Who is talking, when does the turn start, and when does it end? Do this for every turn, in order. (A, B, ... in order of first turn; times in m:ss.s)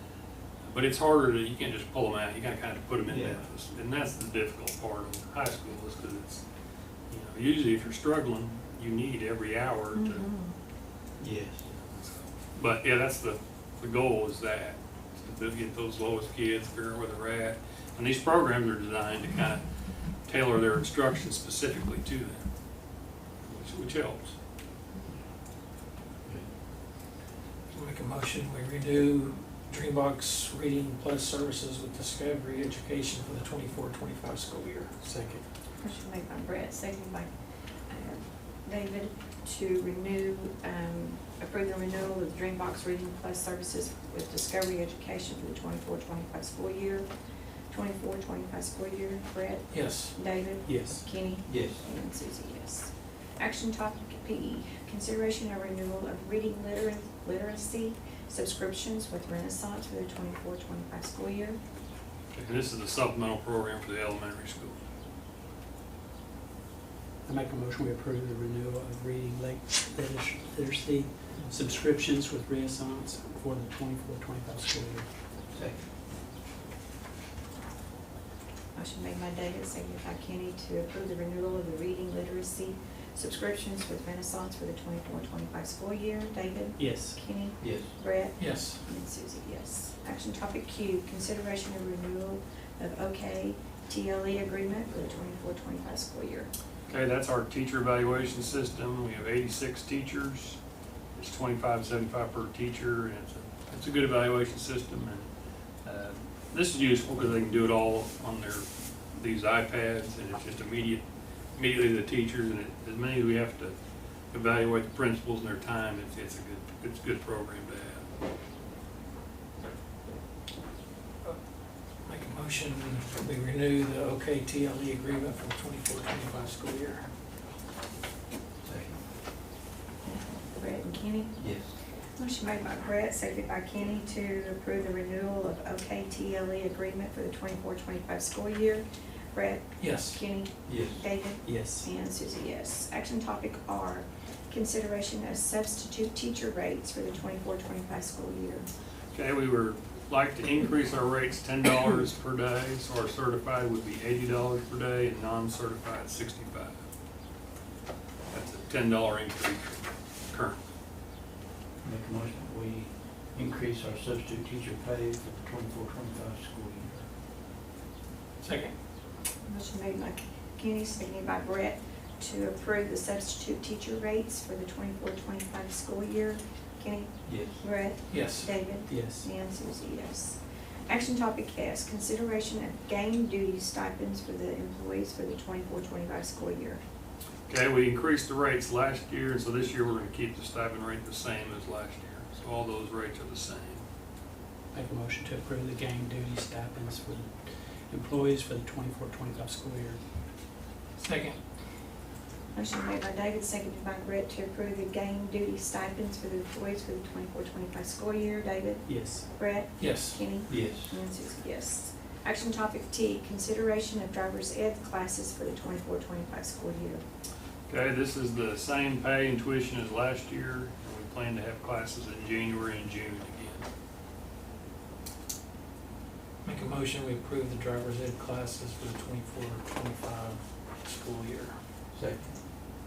0:00.6-0:06.4 A
0:03.1-0:03.4 B
0:07.1-0:10.3 A
0:09.9-0:10.5 C
0:11.2-0:11.7 B
0:11.7-0:19.6 A
0:20.2-0:22.4 A
0:23.5-0:24.4 A
0:27.7-0:35.4 D
0:35.8-0:37.3 C
0:37.9-0:47.1 C
0:47.7-1:01.6 C
0:49.7-0:50.2 D
0:50.7-0:51.0 E
0:51.5-0:51.8 B
1:02.3-1:04.8 A
1:07.2-1:15.1 E
1:15.5-1:15.8 B
1:18.8-1:36.5 C
1:26.8-1:27.2 E
1:27.6-1:27.9 B
1:28.4-1:28.8 D
1:36.9-1:40.6 A
1:41.2-1:45.3 A
1:45.8-1:51.0 A
1:51.6-1:53.8 A
1:54.3-1:58.1 A
2:02.0-2:07.1 D
2:08.6-2:09.0 B
2:10.1-2:11.5 C
2:11.4-2:11.8 B
2:12.2-2:28.7 C
2:19.8-2:20.2 D
2:20.7-2:21.0 B
2:21.4-2:21.9 E
2:29.1-2:36.8 A
2:38.3-2:40.6 A
2:41.8-2:47.1 B
2:48.4-2:48.7 D
2:49.5-3:06.8 C
2:57.3-2:57.5 B
2:58.1-2:58.5 D
2:58.9-2:59.2 E
3:07.5-3:13.8 A
3:14.7-3:17.4 E
3:17.9-3:20.0 E
3:21.0-3:21.4 D
3:22.6-3:37.0 C
3:28.9-3:29.3 E
3:29.8-3:30.3 D
3:30.5-3:31.0 B
3:37.7-3:43.7 A
3:46.4-3:51.6 D
3:51.9-3:52.4 B